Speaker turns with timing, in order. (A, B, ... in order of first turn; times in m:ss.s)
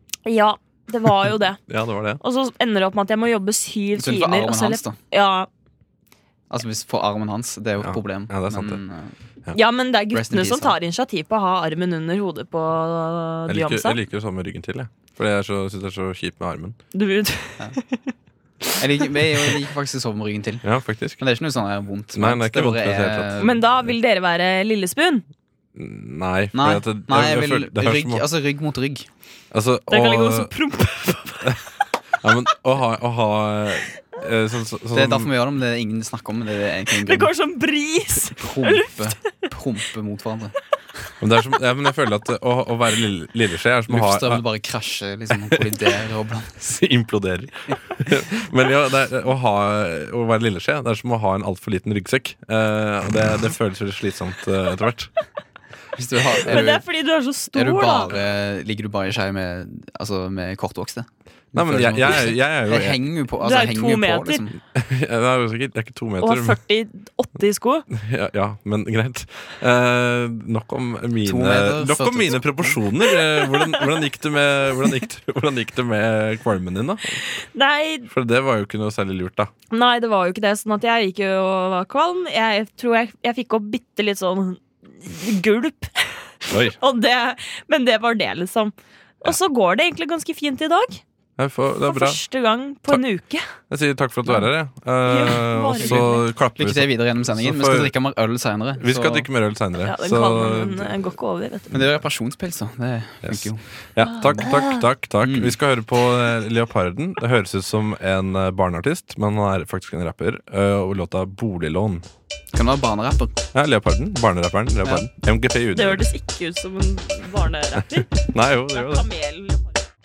0:00.3-0:01.6 A
0:01.7-0:02.2 B
0:02.2-0:05.5 A
0:04.0-0:05.0 C
0:06.5-0:09.1 C
0:07.8-0:08.8 B
0:09.5-0:14.0 A
0:10.1-0:10.8 C
0:13.5-0:16.8 B
0:16.9-0:18.1 A
0:18.8-0:20.7 C
0:20.6-0:21.2 B
0:21.2-0:23.6 C
0:22.1-0:23.5 B
0:23.4-0:25.3 A
0:25.8-0:28.3 B
0:26.5-0:29.1 C
0:29.5-0:30.5 B
0:29.9-0:31.6 A
0:32.2-0:35.3 B
0:34.9-0:37.3 C
0:36.9-0:39.1 A
0:38.2-0:40.5 C
0:41.2-0:44.4 B
0:43.9-0:46.8 C
0:45.3-0:45.9 B
0:46.7-0:55.1 B
0:56.0-0:56.8 C
0:56.4-0:58.2 A
0:57.5-1:04.6 C
1:01.5-1:03.1 B
1:03.4-1:04.5 A
1:04.6-1:06.6 B
1:06.2-1:07.9 A
1:07.9-1:17.2 B
1:11.2-1:12.8 C
1:17.4-1:18.1 A
1:18.1-1:19.5 B
1:19.7-1:31.0 A
1:26.5-1:26.8 B
1:31.4-1:32.2 B
1:31.8-1:33.5 A
1:33.6-1:38.0 B
1:35.0-1:36.3 A
1:35.8-1:39.3 C
1:38.8-1:41.1 B
1:39.8-1:41.8 A
1:41.7-1:43.6 C
1:43.2-1:52.1 B
1:44.1-1:44.8 A
1:45.2-1:45.6 C
1:52.5-1:53.4 C
1:53.5-1:56.0 B
1:55.7-1:58.1 A
1:57.8-1:59.1 B
1:58.7-1:59.8 A